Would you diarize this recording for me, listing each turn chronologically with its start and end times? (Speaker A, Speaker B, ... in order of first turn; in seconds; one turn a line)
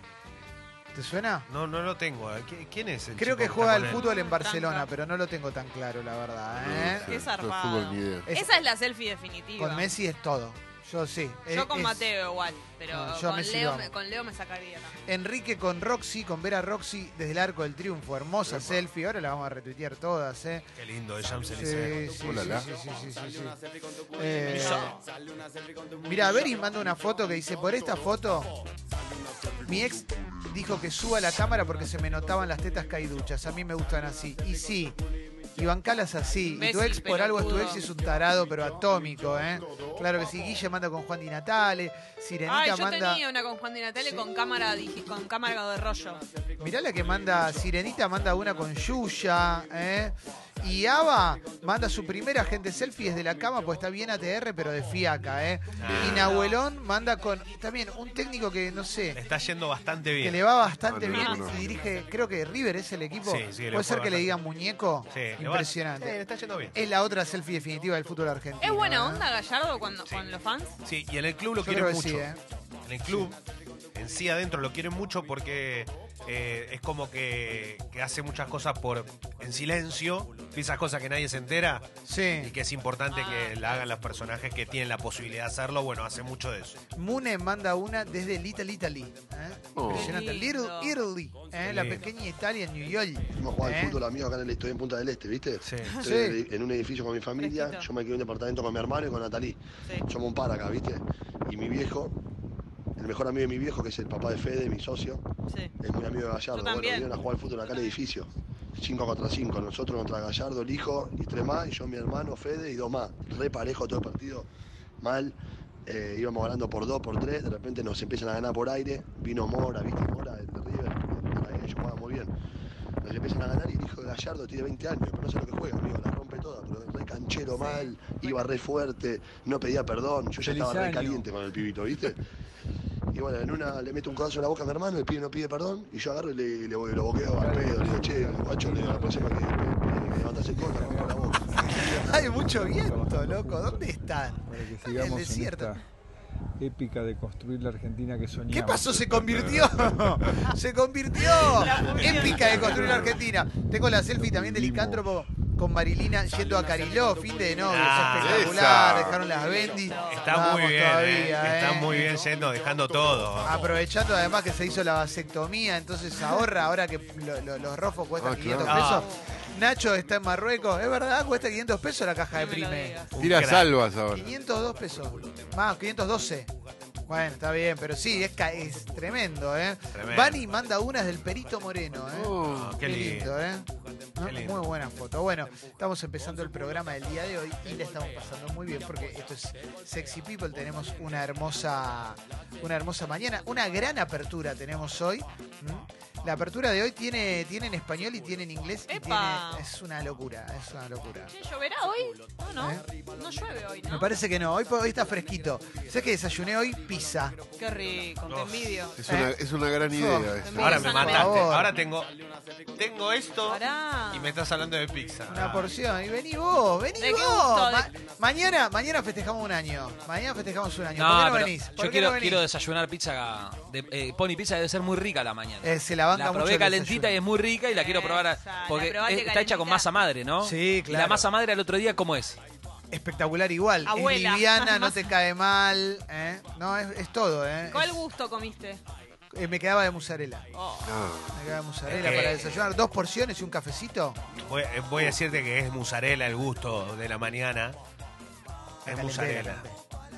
Speaker A: 0.9-1.5
Speaker B: 1.5-4.0
Speaker A: 3.2-7.1
Speaker C: 3.8-4.9
Speaker D: 6.5-8.3
Speaker C: 7.1-9.9
Speaker A: 8.3-8.5
Speaker A: 9.6-12.1
Speaker C: 11.5-15.0
Speaker A: 12.9-13.9
Speaker A: 15.1-20.7
Speaker D: 18.5-18.8
Speaker B: 20.8-22.2
Speaker A: 21.5-23.6
Speaker D: 22.2-22.7
Speaker A: 24.1-25.0
Speaker B: 24.5-24.9
Speaker C: 24.5-24.9
Speaker A: 26.0-28.5
Speaker A: 29.6-35.0
Speaker A: 35.5-43.2
Speaker C: 36.5-37.9
Speaker C: 42.5-46.2
Speaker A: 46.6-59.2
Speaker B: 55.8-56.4
Speaker D: 55.8-56.4
Speaker C: 56.3-56.6
Speaker B: 59.1-60.5
Speaker A: 60.2-66.2
Speaker D: 60.8-61.7
Speaker C: 61.1-61.5
Speaker B: 63.2-64.4
Speaker B: 65.1-66.8
Speaker A: 66.7-69.3
Speaker C: 68.6-70.8
Speaker B: 70.8-72.3
Speaker A: 71.6-72.4
Speaker B: 72.9-73.4
Speaker A: 73.1-73.3
Speaker B: 73.9-81.9
Speaker A: 82.1-82.5
Speaker B: 82.4-86.8
Speaker C: 83.1-83.8
Speaker A: 87.0-94.0
Speaker D: 89.8-90.2
Speaker C: 89.9-90.9
Speaker B: 91.7-92.1
Speaker E: 93.4-102.2
Speaker B: 95.6-96.0
Speaker A: 96.0-96.4
Speaker C: 97.4-97.9
Speaker E: 103.0-105.2
Speaker C: 105.5-105.7
Speaker E: 105.8-114.5
Speaker C: 106.5-107.1
Speaker C: 107.7-107.9
Speaker E: 115.0-122.3
Speaker E: 123.0-132.2
Speaker C: 127.6-128.3
Speaker F: 130.4-131.2
Speaker E: 133.1-141.7
Speaker F: 137.3-139.4
Speaker F: 140.6-145.8
Speaker A: 141.8-145.7
Speaker F: 146.6-149.2
Speaker A: 148.5-162.2
Speaker D: 149.3-150.0
Speaker C: 151.2-153.1
Speaker D: 152.2-153.2
Speaker D: 154.2-155.0
Speaker B: 157.7-158.8
Speaker D: 158.2-159.3
Speaker C: 159.6-160.3
Speaker B: 160.0-163.7
Speaker A: 163.4-173.0
Speaker D: 168.2-169.0
Speaker B: 168.7-169.1
Speaker C: 168.8-169.3
Speaker C: 172.3-173.1
Speaker B: 173.1-173.7
Speaker D: 173.2-174.3
Speaker A: 174.1-176.5
Speaker A: 177.1-201.3
Speaker B: 179.9-180.4
Speaker D: 182.1-182.8
Speaker B: 182.4-183.4
Speaker B: 184.2-184.7
Speaker C: 198.9-199.7
Speaker C: 201.3-204.1
Speaker A: 202.6-202.8
Speaker A: 203.9-207.4
Speaker C: 207.6-209.0
Speaker B: 208.3-208.8
Speaker D: 209.0-211.1
Speaker A: 209.9-211.8
Speaker C: 210.4-211.4
Speaker B: 210.6-212.1
Speaker B: 212.8-213.6
Speaker C: 213.4-214.3
Speaker B: 214.1-215.7
Speaker A: 215.3-222.4
Speaker C: 217.0-217.9
Speaker G: 221.0-232.4
Speaker A: 225.6-227.2
Speaker C: 227.7-229.9
Speaker A: 230.4-231.3
Speaker A: 232.9-238.0
Speaker C: 233.8-235.1
Speaker C: 237.7-238.8
Speaker A: 239.3-240.5
Speaker C: 240.5-241.0
Speaker D: 240.8-241.4
Speaker A: 241.3-244.2
Speaker B: 241.9-242.5
Speaker C: 242.0-242.6
Speaker B: 244.4-247.8
Speaker A: 248.8-249.8
Speaker B: 248.9-249.7